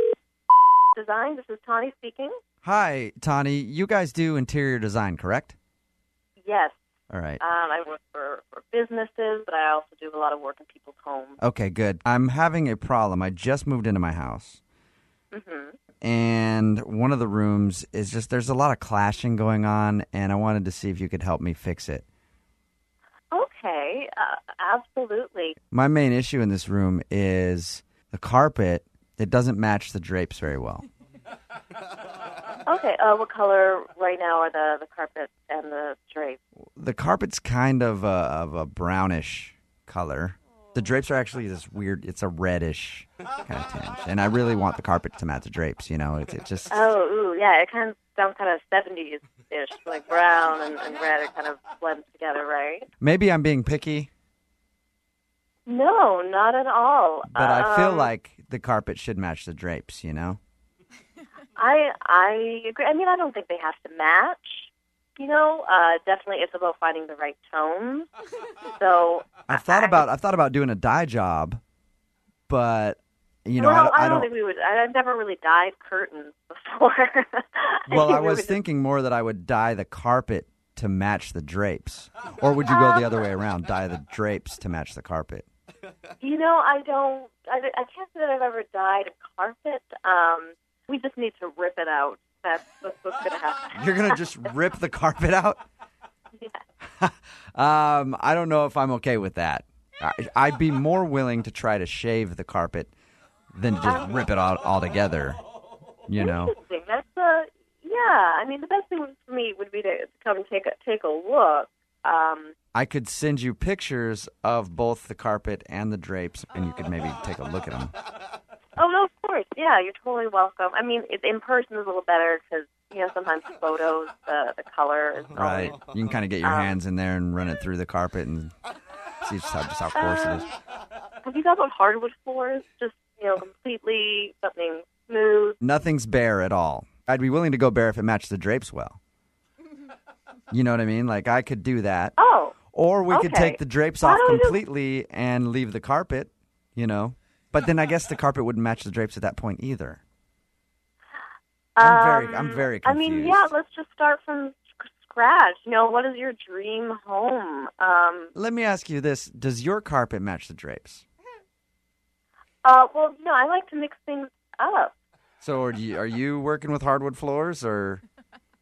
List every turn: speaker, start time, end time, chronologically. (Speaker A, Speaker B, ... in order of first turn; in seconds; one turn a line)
Speaker A: 0.9-2.3
Speaker B: 2.6-5.5
Speaker A: 6.4-6.8
Speaker B: 7.1-7.4
Speaker A: 7.4-11.4
Speaker B: 11.4-14.6
Speaker A: 15.3-15.8
Speaker B: 16.0-22.0
Speaker A: 23.3-25.6
Speaker B: 25.7-30.9
Speaker A: 32.6-36.4
Speaker B: 36.8-46.9
Speaker A: 46.7-52.9
Speaker B: 53.0-54.1
Speaker A: 55.6-58.1
Speaker B: 57.3-60.4
Speaker A: 61.5-68.1
Speaker A: 68.7-70.0
Speaker B: 69.5-71.6
Speaker B: 72.5-74.3
Speaker A: 73.6-78.6
Speaker B: 77.9-85.5
Speaker A: 82.7-83.2
Speaker A: 86.2-93.8
Speaker B: 93.7-95.6
Speaker A: 96.3-96.6
Speaker B: 97.0-102.9
Speaker B: 103.5-105.4
Speaker A: 103.8-104.1
Speaker B: 106.1-106.6
Speaker A: 106.2-112.5
Speaker B: 112.7-117.9
Speaker A: 118.8-125.8
Speaker B: 125.3-128.5
Speaker A: 126.4-126.8
Speaker B: 129.2-130.5
Speaker A: 129.9-130.5
Speaker A: 131.2-135.6
Speaker B: 135.6-139.0
Speaker B: 140.5-142.2
Speaker A: 142.2-142.6
Speaker B: 142.7-150.0
Speaker A: 143.1-144.6
Speaker A: 151.8-158.3
Speaker B: 151.8-153.5
Speaker B: 158.3-161.0
Speaker A: 162.6-164.9
Speaker B: 165.4-168.0